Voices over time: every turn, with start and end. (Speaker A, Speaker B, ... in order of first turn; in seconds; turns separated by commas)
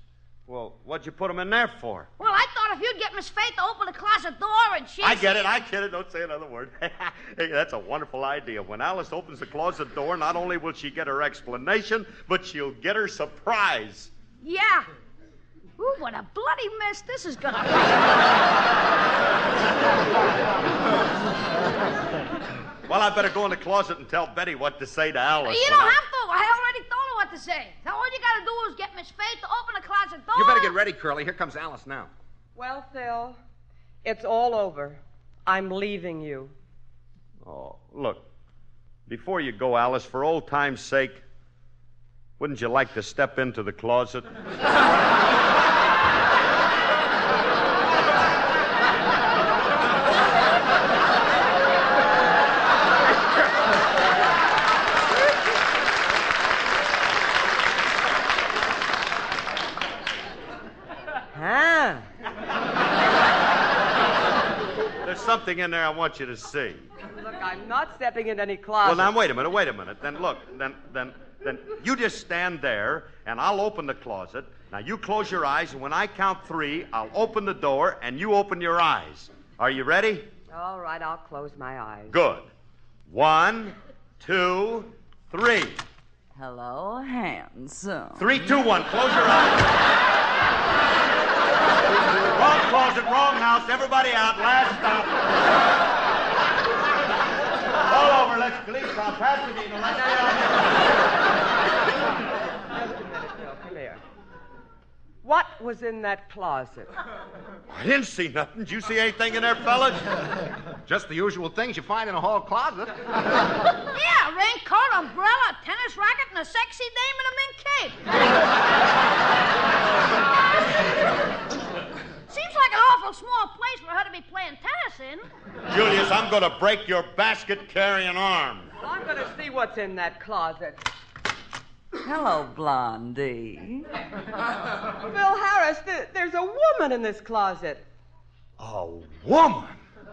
Speaker A: 0.5-2.1, Speaker B: 2.2-5.4, Speaker A: 5.0-14.1, Speaker B: 14.4-14.9, Speaker B: 15.8-18.3, Speaker A: 22.9-26.0, Speaker B: 25.4-30.7, Speaker C: 30.3-32.1, Speaker D: 32.5-33.4, Speaker D: 34.0-36.5, Speaker A: 37.4-38.3, Speaker A: 39.1-41.2, Speaker A: 42.4-44.3, Speaker D: 61.3-62.1, Speaker A: 65.0-66.9, Speaker D: 67.1-69.1, Speaker A: 68.8-80.3, Speaker D: 80.5-82.2, Speaker A: 82.1-82.5, Speaker A: 83.1-85.8, Speaker E: 86.3-88.4, Speaker A: 88.2-89.8, Speaker A: 92.1-95.3, Speaker A: 97.9-100.8, Speaker D: 102.7-104.0, Speaker D: 105.2-106.9, Speaker A: 107.7-110.2, Speaker C: 110.8-113.0, Speaker B: 113.9-118.0, Speaker B: 122.3-125.3, Speaker A: 125.7-128.7, Speaker D: 128.8-130.9, Speaker E: 132.0-133.9, Speaker D: 135.0-137.8, Speaker A: 138.6-139.8